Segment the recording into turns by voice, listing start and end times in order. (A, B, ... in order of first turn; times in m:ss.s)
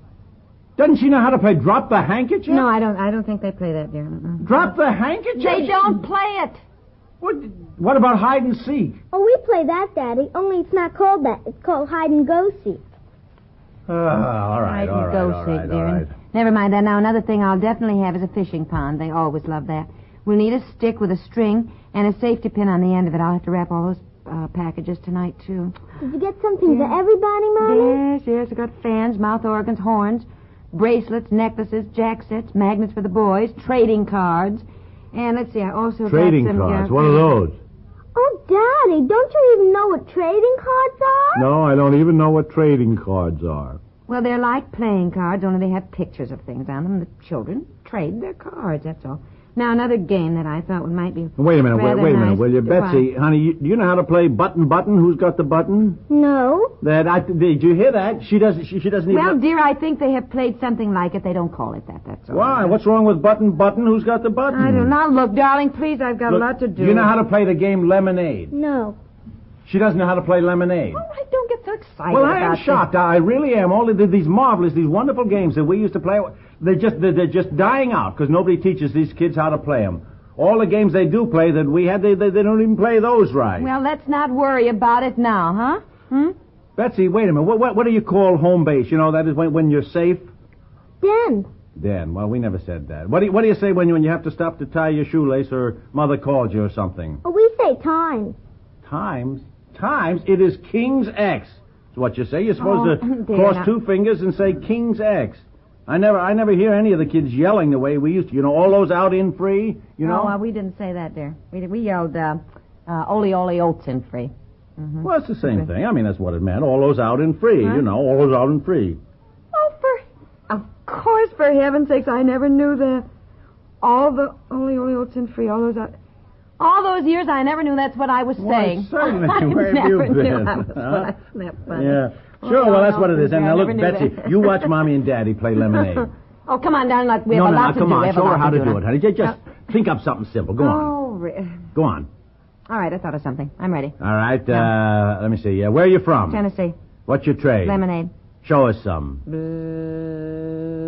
0:00.8-0:02.6 A
0:02.5-0:04.5 B
0:04.4-0:06.0 A
0:05.4-0:06.6 B
0:07.2-0:09.0 A
0:09.1-0:12.8 C
0:13.9-0:16.1 A
0:14.6-0:25.8 B
0:26.0-0:28.0 C
0:26.6-0:27.0 B
0:27.6-0:37.4 B
0:36.0-0:37.6 A
0:38.1-0:41.5 C
0:41.3-0:43.8 A
0:44.1-0:53.1 B
0:51.4-0:56.0 A
0:56.1-0:56.8 C
0:56.8-0:59.4 A
0:59.1-1:02.8 B
1:02.3-1:04.9 A
1:04.5-1:07.1 B
1:06.3-1:08.5 A
1:08.5-1:09.0 C
1:09.6-1:11.0 A
1:10.9-1:12.9 B
1:12.1-1:23.7 A
1:23.6-1:26.3 B
1:26.8-1:30.3 A
1:31.0-1:31.5 C
1:31.7-1:37.2 A
1:37.2-1:38.4 C
1:38.8-1:50.3 A
1:42.6-1:43.7 B
1:50.0-1:55.7 B
1:55.0-1:59.0 A
1:59.5-2:03.0 B
2:03.8-2:05.9 B
2:06.6-2:14.7 B
2:08.4-2:11.1 A
2:11.7-2:16.1 A
2:16.5-2:19.4 B
2:17.3-2:20.9 A
2:20.6-2:21.6 B
2:21.7-2:22.1 A
2:22.7-2:24.0 B
2:24.0-2:26.4 A
2:24.5-2:24.7 B
2:26.2-2:26.8 B
2:27.1-2:27.8 A
2:27.6-2:28.1 B
2:28.4-2:29.2 A
2:29.2-2:30.7 B